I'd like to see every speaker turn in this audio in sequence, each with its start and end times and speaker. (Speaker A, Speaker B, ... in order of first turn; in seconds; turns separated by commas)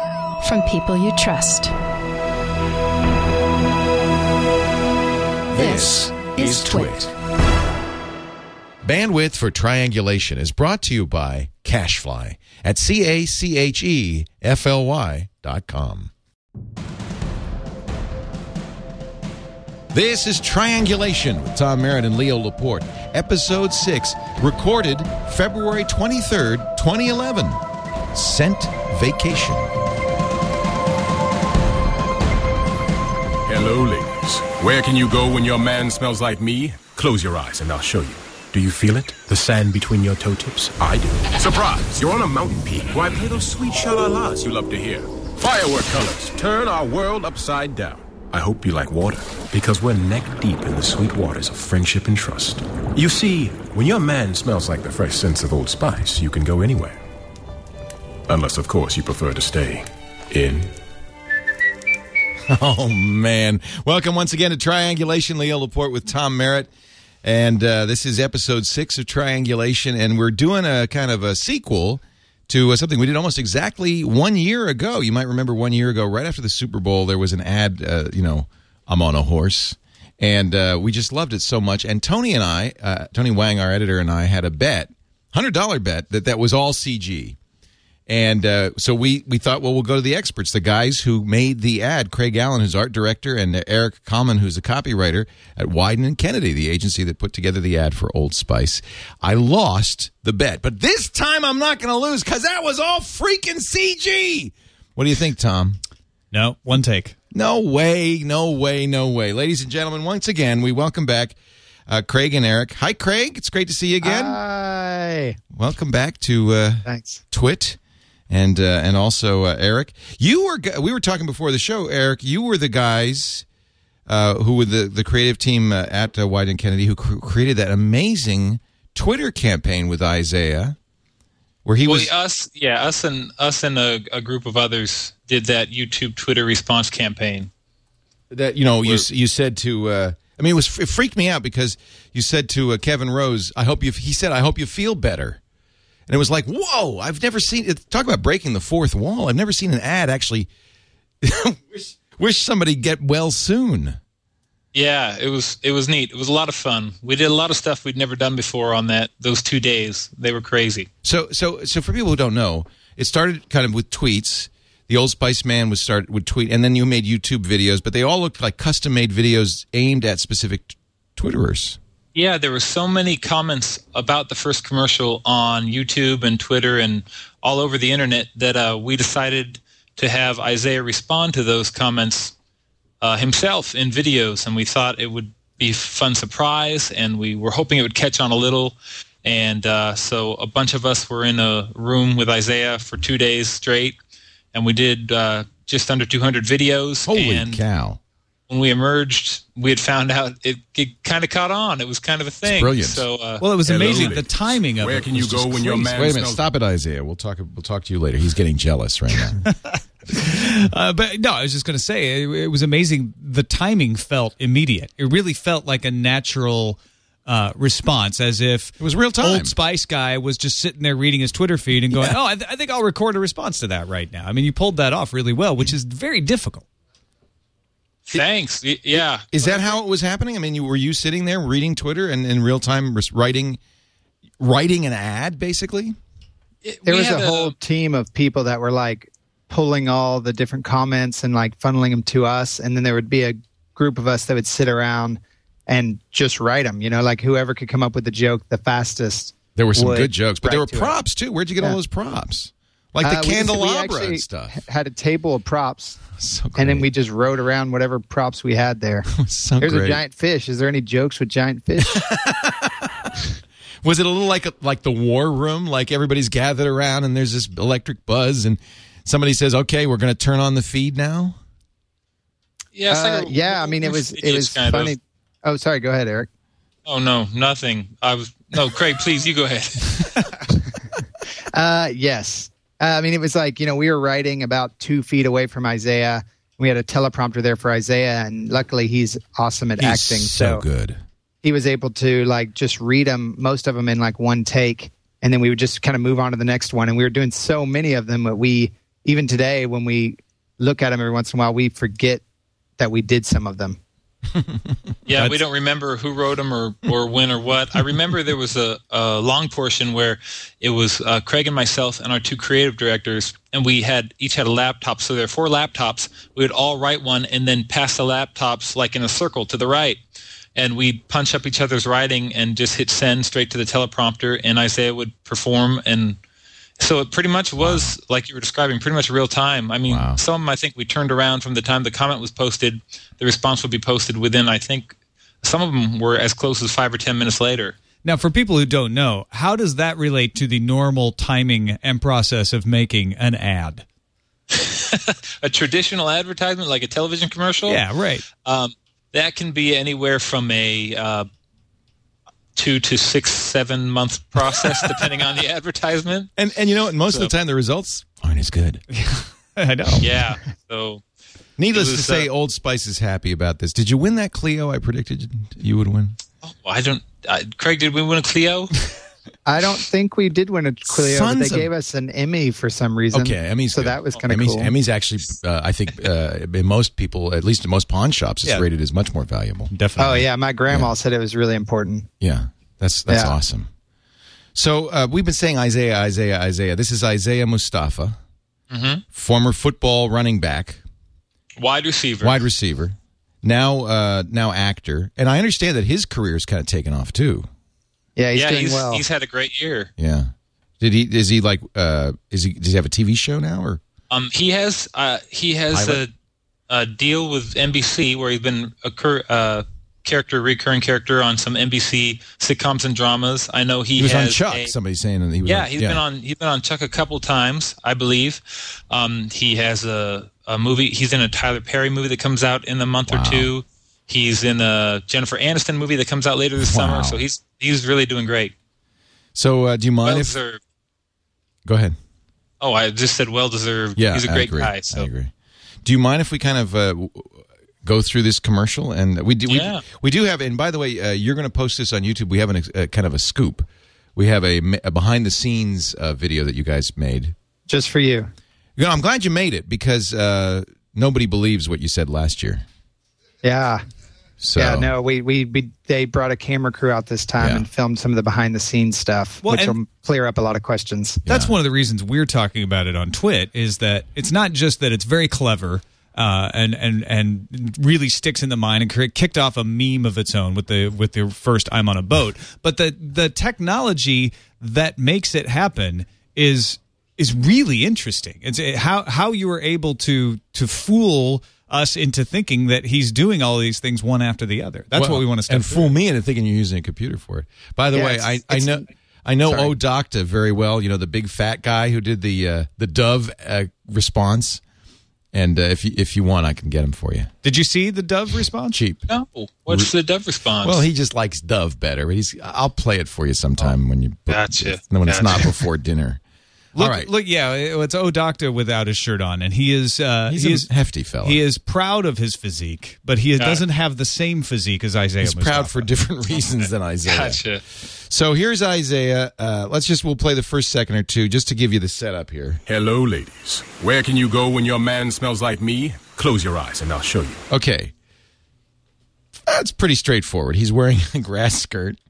Speaker A: 0.4-1.7, Speaker B: 5.5-7.0, Speaker A: 5.5-7.0, Speaker C: 6.4-6.9, Speaker B: 8.8-16.1, Speaker B: 19.9-27.6, Speaker B: 28.1-29.7, Speaker C: 33.5-57.0, Speaker C: 58.3-60.7, Speaker B: 62.5-66.7, Speaker B: 67.2-87.4, Speaker B: 88.1-105.8, Speaker D: 106.3-107.2, Speaker B: 107.3-111.3, Speaker B: 111.9-114.4, Speaker E: 114.0-115.4, Speaker B: 115.5-117.8, Speaker E: 116.9-117.2, Speaker B: 118.3-123.5, Speaker B: 124.1-130.8, Speaker B: 131.7-132.1, Speaker F: 131.8-137.5, Speaker B: 138.3-145.4, Speaker B: 146.1-150.5, Speaker B: 151.2-154.0, Speaker F: 154.7-160.9, Speaker B: 161.0-171.8, Speaker F: 172.2-182.3, Speaker F: 183.0-194.0, Speaker F: 194.5-197.6, Speaker B: 197.1-198.0, Speaker F: 198.5-203.4, Speaker B: 202.4-203.1, Speaker D: 203.4-206.0, Speaker C: 203.6-206.4, Speaker B: 205.9-209.4, Speaker D: 209.4-226.7, Speaker B: 218.8-219.6, Speaker B: 221.9-222.2, Speaker F: 228.1-229.8, Speaker B: 228.9-233.6, Speaker B: 234.4-236.0, Speaker F: 236.6-237.6, Speaker E: 236.9-250.9, Speaker B: 249.6-254.6, Speaker E: 253.0-256.0, Speaker B: 256.2-256.9, Speaker E: 256.6-262.1, Speaker B: 259.1-260.0, Speaker B: 261.8-263.2, Speaker B: 263.8-271.4, Speaker F: 272.8-274.9, Speaker E: 272.9-276.3, Speaker F: 276.9-280.3, Speaker E: 281.5-290.6, Speaker B: 289.8-291.0, Speaker E: 291.4-302.2, Speaker E: 302.8-303.8, Speaker B: 304.4-305.4, Speaker F: 305.1-320.0, Speaker F: 320.6-326.2, Speaker F: 326.8-337.8, Speaker B: 327.6-327.9, Speaker B: 329.9-330.2, Speaker D: 338.0-343.9, Speaker F: 344.5-347.8, Speaker D: 347.7-348.2, Speaker F: 348.4-351.3, Speaker F: 352.6-356.3, Speaker B: 356.4-358.9, Speaker D: 358.9-360.1, Speaker F: 360.0-361.0, Speaker B: 361.6-366.2, Speaker F: 361.7-362.3, Speaker F: 366.4-368.8, Speaker E: 369.4-374.7, Speaker B: 370.9-371.7, Speaker B: 373.1-379.7, Speaker D: 379.7-380.3, Speaker E: 380.0-382.1, Speaker B: 382.2-383.7, Speaker E: 383.1-383.4, Speaker B: 384.6-388.2, Speaker F: 388.7-389.0, Speaker B: 389.1-390.8, Speaker F: 391.6-392.5, Speaker B: 392.2-397.5, Speaker E: 398.2-399.0, Speaker F: 398.4-399.9, Speaker B: 400.0-403.8, Speaker F: 404.1-406.1, Speaker B: 405.7-406.0, Speaker F: 406.7-414.7, Speaker B: 414.0-416.0, Speaker F: 415.4-428.5, Speaker B: 423.1-423.5, Speaker B: 426.6-427.2, Speaker B: 429.4-430.3, Speaker F: 430.1-430.6, Speaker B: 431.7-432.0, Speaker F: 432.6-435.1, Speaker B: 434.0-435.3, Speaker B: 435.8-447.4, Speaker F: 439.5-439.8, Speaker E: 447.7-448.3, Speaker B: 448.8-452.6, Speaker E: 453.4-453.8, Speaker B: 454.4-454.9, Speaker E: 454.6-461.3, Speaker B: 457.4-457.7, Speaker D: 459.4-459.8, Speaker B: 461.3-461.6, Speaker D: 461.3-485.9, Speaker B: 484.9-494.6, Speaker E: 487.9-488.9, Speaker E: 489.5-489.7, Speaker B: 495.3-497.3, Speaker D: 497.4-498.8, Speaker B: 498.7-499.1, Speaker F: 499.1-500.8, Speaker B: 500.6-506.2, Speaker F: 504.3-505.5, Speaker D: 506.8-510.7, Speaker B: 506.8-507.1, Speaker B: 510.3-511.4, Speaker D: 511.2-515.8, Speaker F: 513.4-513.6, Speaker B: 515.2-517.4, Speaker F: 517.0-517.6, Speaker B: 518.1-522.6, Speaker C: 522.7-527.4, Speaker B: 527.5-527.9, Speaker B: 529.5-532.0